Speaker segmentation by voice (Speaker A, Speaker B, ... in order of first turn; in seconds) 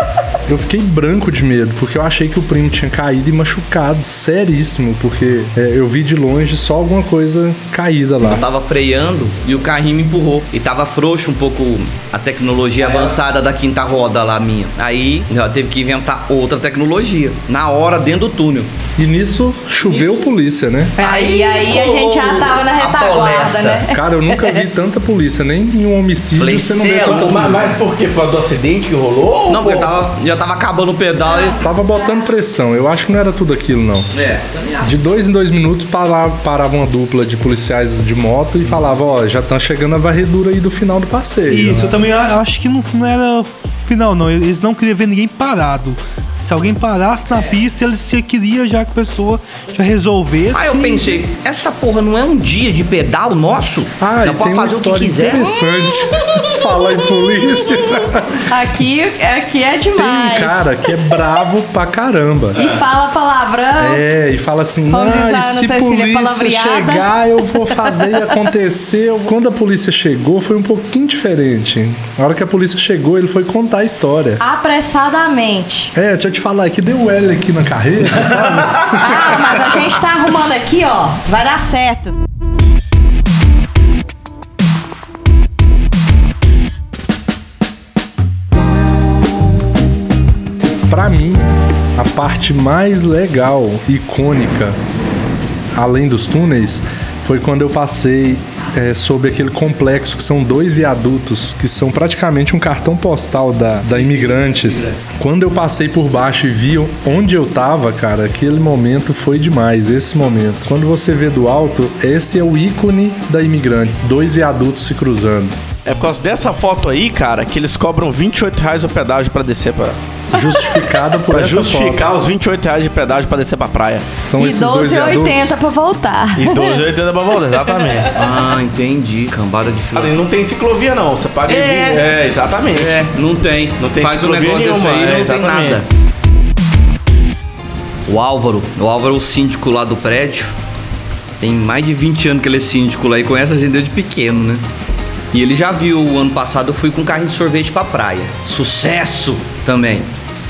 Speaker A: 0.5-8.4, 19.0-21.0, 23.9-27.7, 31.5-34.1, 34.8-42.0, 54.0-58.5, 60.0-62.6, 63.8-74.4, 75.9-79.7, 90.9-94.8, 95.8-115.5, 120.3-122.1, 124.2-125.5
Speaker B: 8.2-18.7, 21.0-23.8, 26.4-27.7, 29.5-31.6, 34.1-34.9, 50.5-55.5, 128.1-130.2, 131.5-132.1, 132.7-135.8, 138.1-140.5, 141.4-144.6, 145.3-150.1
Speaker C: 21.0-24.6, 55.7-60.9, 62.5-64.0, 64.9-68.5, 74.4-75.9, 79.0-82.1, 124.4-126.8
Speaker D: 27.0-30.0, 62.5-62.8, 115.8-120.0, 121.3-124.0, 126.3-128.1, 129.9-133.0, 133.8-135.8
Speaker E: 41.5-51.2